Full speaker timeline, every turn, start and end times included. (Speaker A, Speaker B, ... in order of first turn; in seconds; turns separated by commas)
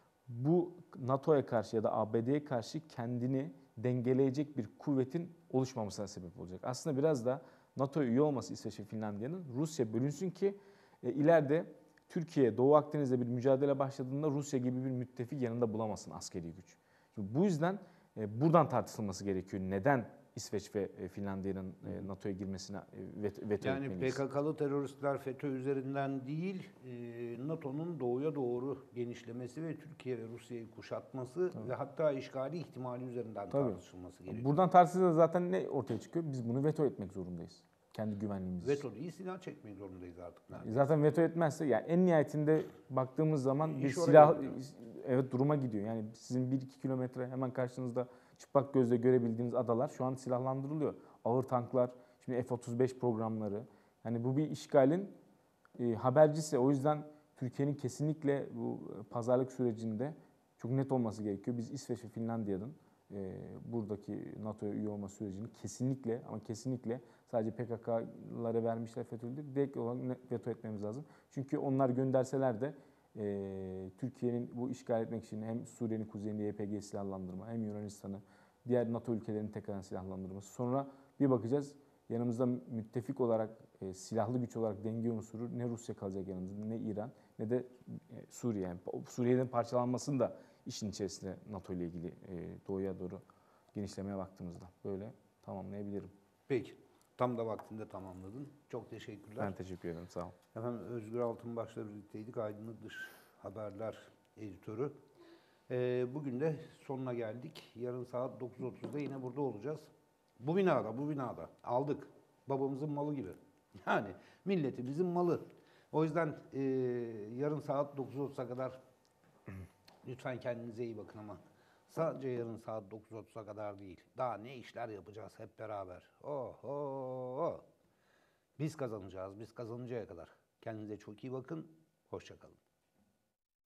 Speaker A: 0.3-24.2, Speaker B: 23.6-34.6, Speaker A: 33.5-38.9, Speaker B: 38.6-40.9, Speaker A: 40.6-55.1, Speaker B: 43.6-44.6, Speaker A: 55.8-93.2, Speaker A: 93.7-96.1, Speaker B: 96.5-99.5, Speaker A: 99.4-100.4, Speaker B: 100.5-104.9, Speaker B: 105.7-118.8, Speaker B: 120.0-127.6, Speaker B: 128.6-132.6